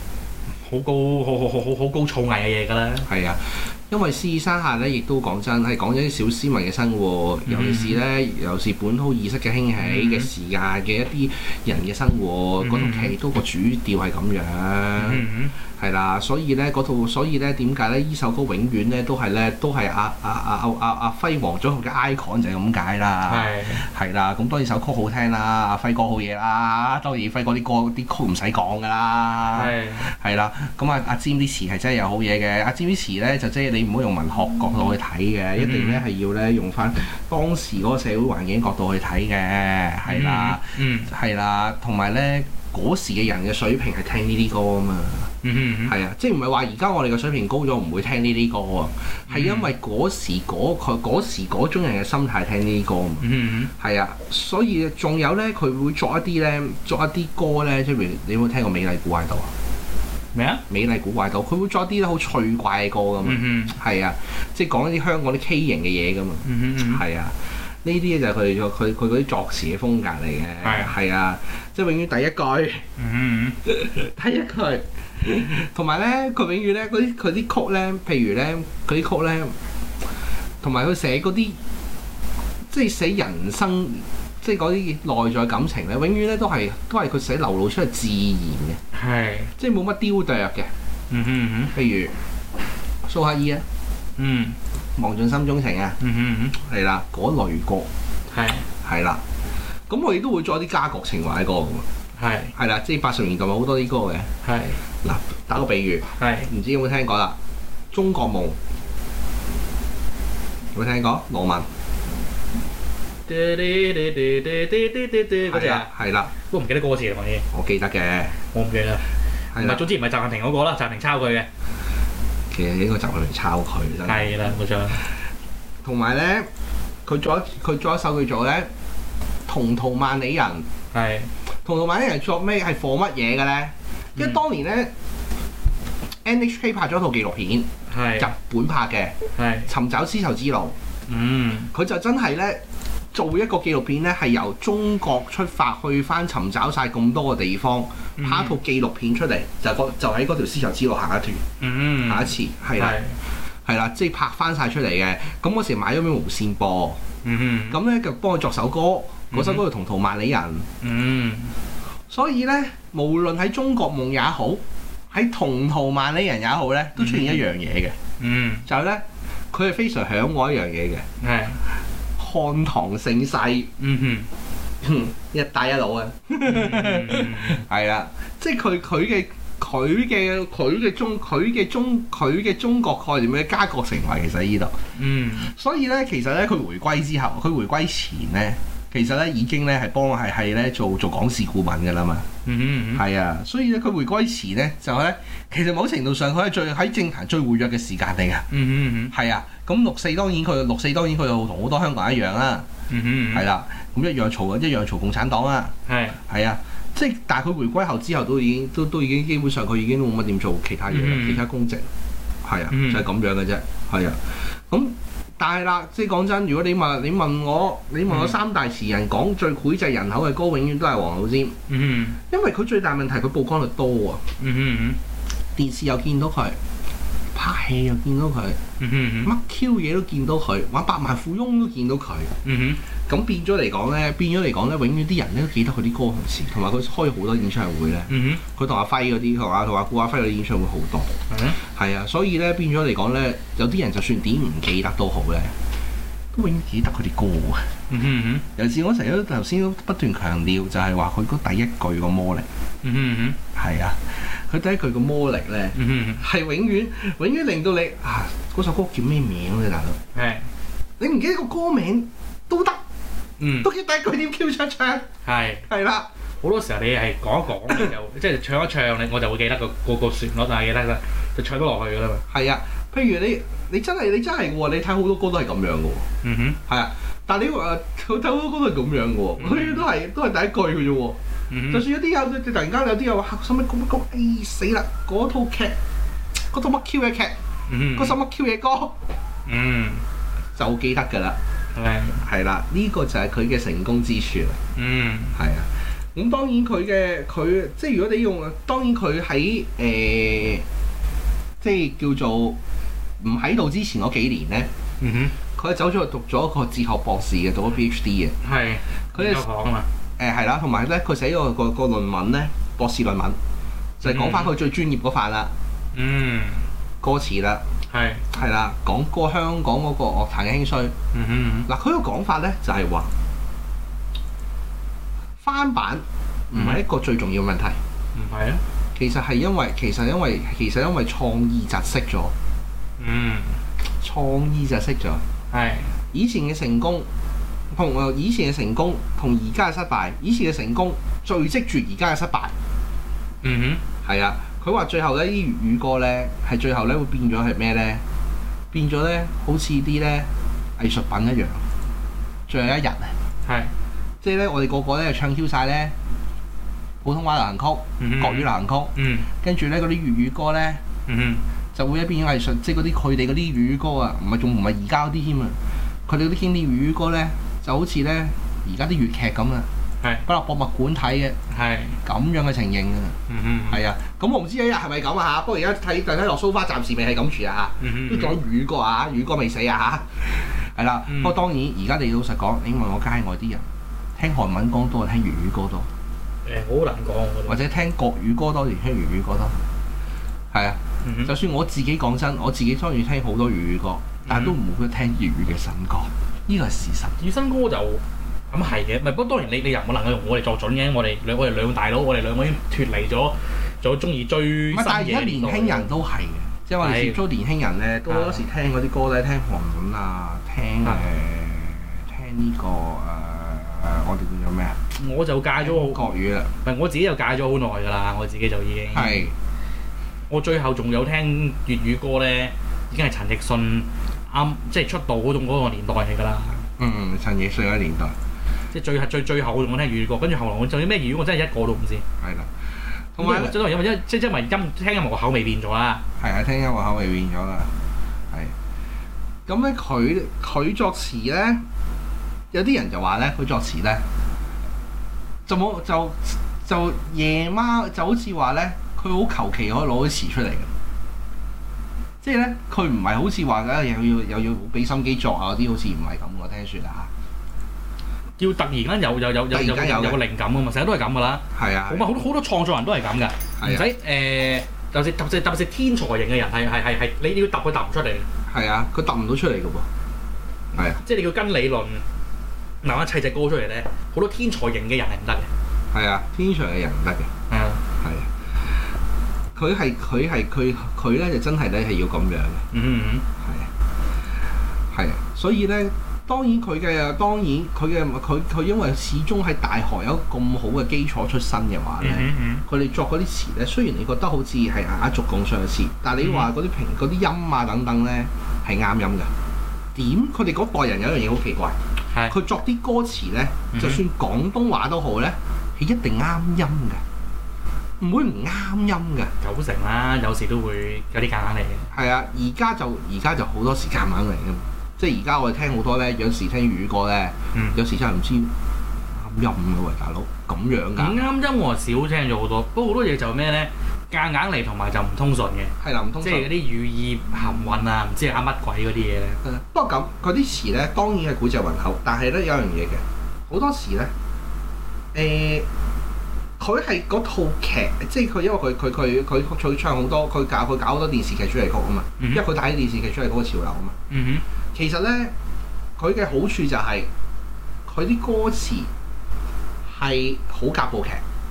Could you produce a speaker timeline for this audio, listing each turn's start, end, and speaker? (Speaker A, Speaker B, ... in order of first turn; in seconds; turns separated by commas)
Speaker A: 0.6-3.1, Speaker B: 3.0-45.3, Speaker A: 7.5-8.0, Speaker A: 9.8-10.3, Speaker A: 12.6-13.1, Speaker A: 15.0-15.5, Speaker A: 23.3-23.9, Speaker A: 29.5-30.0, Speaker A: 35.6-36.0, Speaker A: 40.1-41.1, Speaker A: 45.4-45.9, Speaker B: 45.9-53.2, Speaker A: 49.3-49.7, Speaker A: 53.2-53.7, Speaker B: 53.8-59.5, Speaker A: 60.3-60.6, Speaker B: 60.7-72.8, Speaker A: 63.2-63.8, Speaker A: 66.4-67.0, Speaker A: 70.6-70.9, Speaker A: 73.0-73.6, Speaker B: 73.7-79.5, Speaker B: 80.6-81.6, Speaker B: 82.7-88.8, Speaker A: 88.9-89.5, Speaker B: 89.6-90.7, Speaker A: 91.1-91.7, Speaker B: 91.7-92.1, Speaker B: 93.0-93.6, Speaker A: 94.2-94.6, Speaker B: 95.0-96.0, Speaker A: 96.0-96.5, Speaker B: 96.6-97.9, Speaker A: 98.3-98.7, Speaker B: 98.8-99.2, Speaker B: 99.9-101.8, Speaker A: 102.2-102.5, Speaker B: 102.5-104.3, Speaker A: 104.4-104.8, Speaker B: 105.0-107.3, Speaker A: 106.2-106.5, Speaker B: 107.9-108.6, Speaker B: 110.7-111.7, Speaker A: 113.3-117.5, Speaker B: 115.5-116.3, Speaker B: 117.5-118.3, Speaker A: 118.5-121.5, Speaker B: 119.5-119.9, Speaker B: 122.5-124.3, Speaker A: 124.0-125.0, Speaker B: 125.8-126.5, Speaker B: 127.0-128.7, Speaker B: 129.5-130.7, Speaker A: 130.9-131.3, Speaker B: 131.5-134.9, Speaker B: 136.2-139.1, Speaker A: 137.9-138.3, Speaker A: 139.3-139.7, Speaker B: 139.7-140.7, Speaker A: 141.1-141.7, Speaker B: 141.7-142.6, Speaker B: 143.1-151.4, Speaker A: 148.2-148.6, Speaker A: 151.6-153.2, Speaker B: 152.0-153.0, Speaker B: 153.6-157.0, Speaker A: 157.2-157.8, Speaker B: 157.7-160.7, Speaker A: 159.3-159.6, Speaker A: 160.8-161.5, Speaker B: 162.1-167.9, Speaker A: 167.0-167.4, Speaker A: 168.2-168.7, Speaker B: 168.7-171.1, Speaker A: 171.2-171.6, Speaker B: 172.2-173.7, Speaker A: 173.8-174.3, Speaker B: 174.8-184.8, Speaker A: 176.4-177.6, Speaker A: 184.9-185.5, Speaker B: 185.4-192.3, Speaker A: 192.4-193.0, Speaker B: 192.9-198.5, Speaker A: 198.5-199.1, Speaker B: 199.1-202.7, Speaker A: 202.9-203.4, Speaker B: 203.3-205.7, Speaker A: 205.9-206.2, Speaker B: 206.3-211.9, Speaker A: 210.9-211.4, Speaker B: 212.4-221.6, Speaker A: 212.7-213.1, Speaker A: 218.1-218.4, Speaker A: 221.7-222.2, Speaker B: 222.3-224.2, Speaker A: 224.4-225.0, Speaker B: 225.6-226.6, Speaker B: 227.3-228.6, Speaker A: 228.8-229.3, Speaker B: 229.2-232.3, Speaker A: 232.4-232.8, Speaker B: 233.1-245.5, Speaker A: 238.1-238.4, Speaker A: 241.3-241.6, Speaker B: 246.3-247.7, Speaker A: 247.9-248.4, Speaker B: 248.6-252.4, Speaker A: 252.8-253.4, Speaker B: 253.5-260.0, Speaker A: 255.7-256.2, Speaker A: 260.1-260.5, Speaker B: 261.0-262.8, Speaker A: 263.4-263.7, Speaker B: 263.6-265.1, Speaker A: 265.2-265.7, Speaker B: 265.7-266.1, Speaker A: 266.4-272.2, Speaker B: 272.3-276.0, Speaker A: 276.2-276.6, Speaker B: 276.7-281.2, Speaker A: 279.4-279.8, Speaker A: 281.5-281.9, Speaker B: 281.7-285.7, Speaker B: 286.5-287.3, Speaker A: 287.7-288.2, Speaker B: 287.9-288.9, Speaker A: 289.5-290.0, Speaker B: 290.6-291.4, Speaker A: 291.7-292.2, Speaker B: 292.2-294.6, Speaker A: 294.8-295.4, Speaker B: 295.4-300.6, Speaker B: 301.6-302.6, Speaker B: 303.2-304.7, Speaker A: 305.0-305.4, Speaker B: 305.6-308.4, Speaker A: 308.4-309.9, Speaker B: 309.1-309.4, Speaker B: 310.2-313.4, Speaker B: 314.0-315.5, Speaker A: 314.0-314.5, Speaker A: 315.9-316.7, Speaker B: 317.0-317.6, Speaker A: 317.9-318.2, Speaker B: 318.3-320.9, Speaker A: 321.1-321.7, Speaker B: 321.7-323.1, Speaker B: 325.4-327.8, Speaker A: 326.5-326.8, Speaker A: 328.1-328.6, Speaker B: 328.9-332.3, Speaker A: 333.0-333.6, Speaker B: 334.0-335.2, Speaker A: 335.5-335.9, Speaker B: 336.1-337.1, Speaker B: 337.7-342.5, Speaker A: 343.4-343.8, Speaker B: 344.0-348.0, Speaker B: 348.7-351.6, Speaker B: 352.5-353.1, Speaker A: 353.4-353.7, Speaker B: 354.2-355.9, Speaker B: 357.0-360.8, Speaker A: 358.0-359.3, Speaker A: 361.1-361.4, Speaker B: 361.7-369.7, Speaker B: 370.2-371.4, Speaker A: 371.5-372.0, Speaker B: 372.0-373.1, Speaker A: 373.3-373.8, Speaker B: 373.7-383.6, Speaker A: 377.8-378.4, Speaker A: 381.1-381.4, Speaker B: 384.2-385.9, Speaker A: 386.4-387.6, Speaker B: 387.5-389.6, Speaker B: 390.5-397.1, Speaker A: 391.0-391.3, Speaker A: 394.3-394.6, Speaker A: 397.2-405.9, Speaker B: 404.7-414.8, Speaker A: 406.8-407.2, Speaker A: 408.1-408.4, Speaker A: 414.9-416.1, Speaker B: 415.6-416.5, Speaker A: 416.6-419.3, Speaker B: 418.9-419.3, Speaker A: 420.3-426.6, Speaker B: 426.8-428.1, Speaker A: 428.7-432.0, Speaker B: 432.2-432.5, Speaker B: 433.1-433.6, Speaker A: 433.2-436.0, Speaker B: 436.2-437.7, Speaker B: 439.4-441.6, Speaker B: 442.5-444.0, Speaker B: 445.4-450.7, Speaker B: 452.2-457.1, Speaker A: 458.4-468.3, Speaker B: 459.5-460.2, Speaker B: 461.5-462.1, Speaker B: 463.6-463.9, Speaker B: 468.5-469.9, Speaker B: 470.7-471.0, Speaker A: 471.0-472.0, Speaker A: 472.8-475.5, Speaker B: 475.9-477.3, Speaker A: 477.5-477.8, Speaker B: 478.0-478.3, Speaker B: 479.6-482.6, Speaker A: 482.7-483.2, Speaker B: 483.4-483.7, Speaker B: 484.9-499.3, Speaker A: 492.0-492.6, Speaker A: 496.2-496.5, Speaker B: 499.9-501.8, Speaker A: 502.1-502.4, Speaker B: 502.3-507.0, Speaker A: 503.7-504.0, Speaker B: 508.0-509.3, Speaker A: 509.4-511.9, Speaker B: 511.9-518.5, Speaker A: 517.5-517.8, Speaker B: 519.1-521.2, Speaker A: 521.0-529.4, Speaker B: 525.8-526.5, Speaker B: 529.4-534.1, Speaker B: 535.1-535.6, Speaker B: 536.6-544.0, Speaker A: 544.1-544.4, Speaker B: 544.7-545.3, Speaker B: 546.0-547.1, Speaker B: 547.9-548.9, Speaker B: 549.9-551.2